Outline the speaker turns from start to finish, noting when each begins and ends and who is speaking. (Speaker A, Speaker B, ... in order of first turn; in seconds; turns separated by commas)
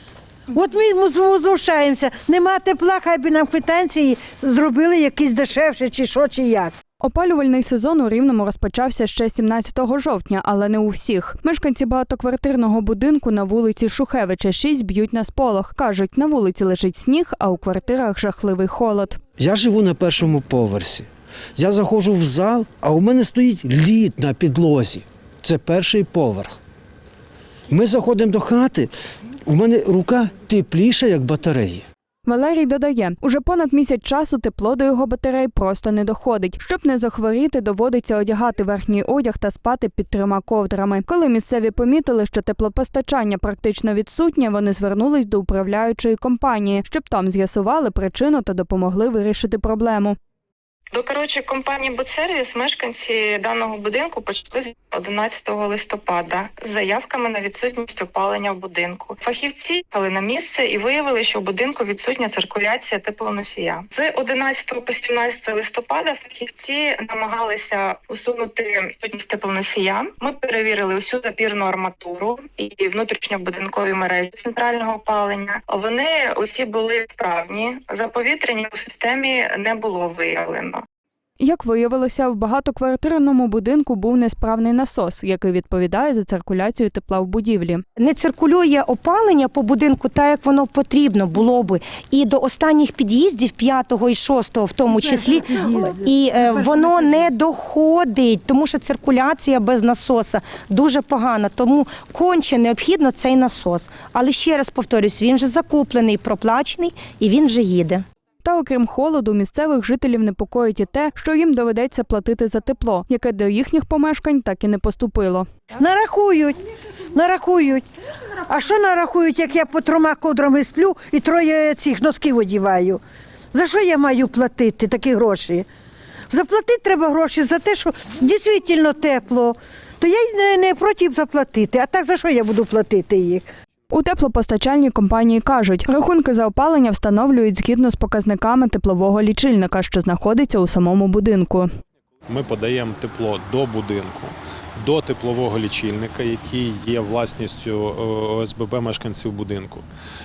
Speaker A: 0.5-6.8, Speaker B: 7.0-19.2, Speaker C: 19.4-26.6, Speaker C: 27.7-28.9, Speaker C: 29.5-31.9, Speaker B: 32.2-50.2, Speaker D: 50.9-80.8, Speaker B: 81.4-87.8, Speaker E: 88.0-108.0, Speaker A: 94.9-97.3, Speaker B: 108.4-115.5, Speaker A: 115.8-116.6, Speaker A: 117.1-117.8, Speaker A: 118.5-123.0, Speaker A: 123.5-125.7, Speaker A: 126.3-133.4, Speaker B: 133.9-141.7, Speaker F: 142.3-149.8